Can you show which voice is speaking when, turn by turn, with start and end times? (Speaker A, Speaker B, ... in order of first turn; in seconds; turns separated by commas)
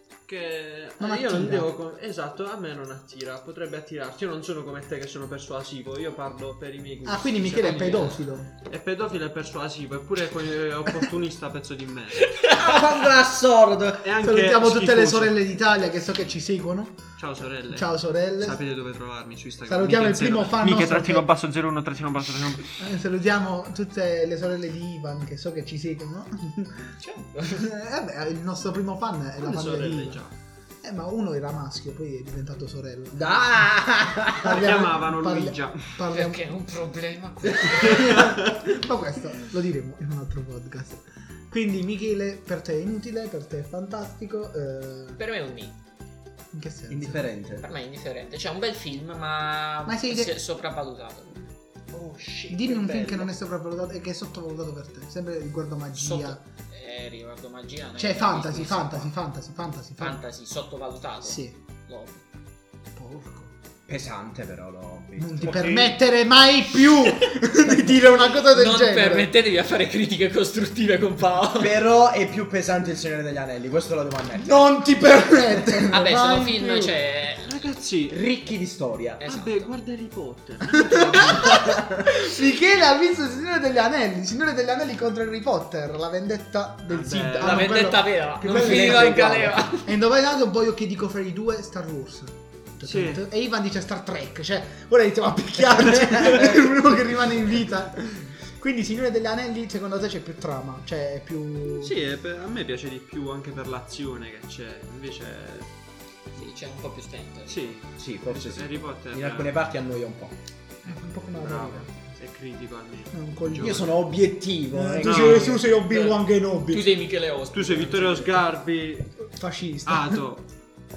Speaker A: 0.3-12.4, Speaker B: 1.0-1.7, Speaker B: 7.0-8.5, Speaker C: 12.3-12.6, Speaker D: 12.6-14.1, Speaker A: 14.0-15.4, Speaker B: 14.2-17.0, Speaker A: 17.2-22.7, Speaker B: 17.7-18.6, Speaker B: 19.7-21.3, Speaker B: 22.8-26.9, Speaker C: 27.0-27.7, Speaker B: 27.5-30.2, Speaker A: 29.4-30.3, Speaker B: 30.8-36.5, Speaker D: 33.2-34.5, Speaker A: 34.4-36.1, Speaker C: 36.1-38.2, Speaker B: 37.7-45.2, Speaker A: 38.0-38.5, Speaker C: 45.2-45.8, Speaker B: 46.5-47.3, Speaker D: 46.9-47.7, Speaker C: 47.6-51.4, Speaker B: 49.9-50.4, Speaker A: 51.9-53.3, Speaker B: 52.5-56.4, Speaker C: 55.9-59.1, Speaker B: 58.0-60.2, Speaker C: 60.0-62.2, Speaker B: 61.2-61.6, Speaker B: 63.0-63.5, Speaker D: 63.9-66.0, Speaker B: 65.2-69.3, Speaker C: 68.5-71.8, Speaker D: 71.6-74.5, Speaker B: 74.4-76.9, Speaker C: 75.9-77.4, Speaker A: 77.4-78.2, Speaker D: 78.1-79.2, Speaker C: 79.2-79.7, Speaker A: 79.2-81.5, Speaker B: 80.9-102.0, Speaker D: 81.3-81.9, Speaker A: 86.9-87.7, Speaker C: 87.4-90.0, Speaker D: 87.5-87.9, Speaker D: 88.4-89.7, Speaker A: 92.8-93.2, Speaker A: 101.7-105.7, Speaker C: 106.3-107.8, Speaker A: 107.5-109.7, Speaker D: 108.0-110.3, Speaker B: 110.8-112.1, Speaker A: 111.3-113.9, Speaker B: 113.1-114.0, Speaker D: 113.5-115.6, Speaker B: 114.7-116.9, Speaker A: 115.0-115.6, Speaker C: 115.9-118.5, Speaker A: 117.5-119.2, Speaker B: 119.3-120.2, Speaker A: 119.8-120.5